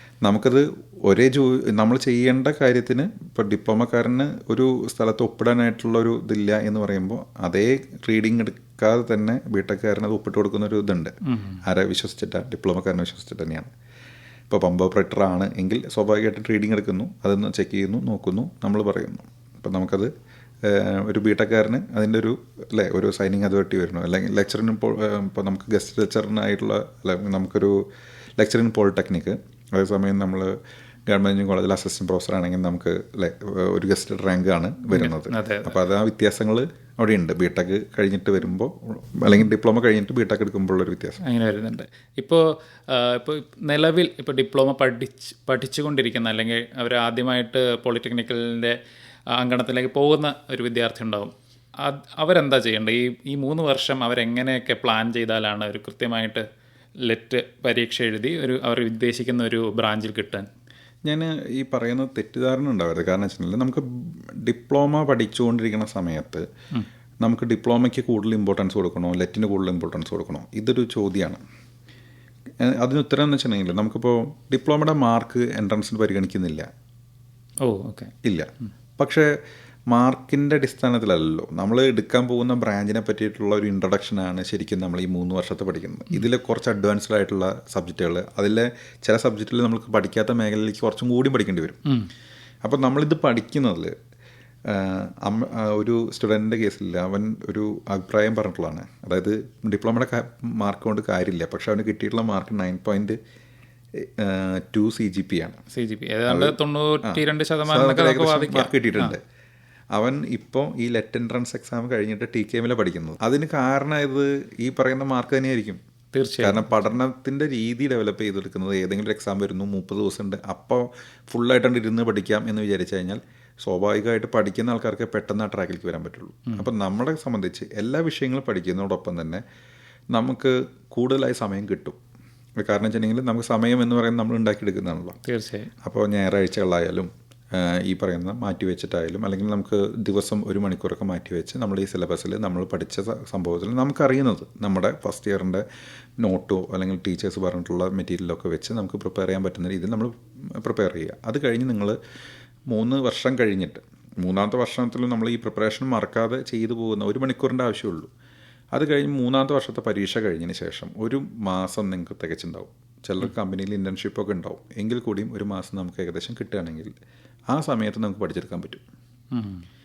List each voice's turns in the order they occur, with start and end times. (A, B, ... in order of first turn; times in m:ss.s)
0:00.2-0:13.7 A
0:11.2-0:11.6 B
0:14.5-0:20.1 A
0:20.6-0:27.8 A
0:28.4-0:30.5 A
0:31.1-0:41.2 A
0:34.9-0:35.7 B
0:41.2-0:48.8 B
0:49.3-0:56.4 B
0:57.0-1:00.4 B
1:01.0-1:06.4 A
1:07.2-1:11.4 A
1:12.6-1:16.7 A
1:17.6-1:18.1 B
1:19.0-1:19.3 A
1:19.9-1:31.8 A
1:32.6-1:33.9 A
1:34.7-1:43.2 A
1:44.0-1:45.6 A
1:45.7-1:49.2 B
1:46.3-1:49.2 A
1:49.9-1:55.8 A
1:56.1-1:56.7 B
1:56.4-2:09.4 A
2:10.1-2:12.0 A
2:12.6-2:15.2 A
2:15.2-2:15.7 B
2:15.8-2:25.6 A
2:26.2-2:32.0 A
2:32.7-2:38.1 A
2:38.7-2:46.9 A
2:47.5-2:48.8 A
2:49.3-2:49.6 B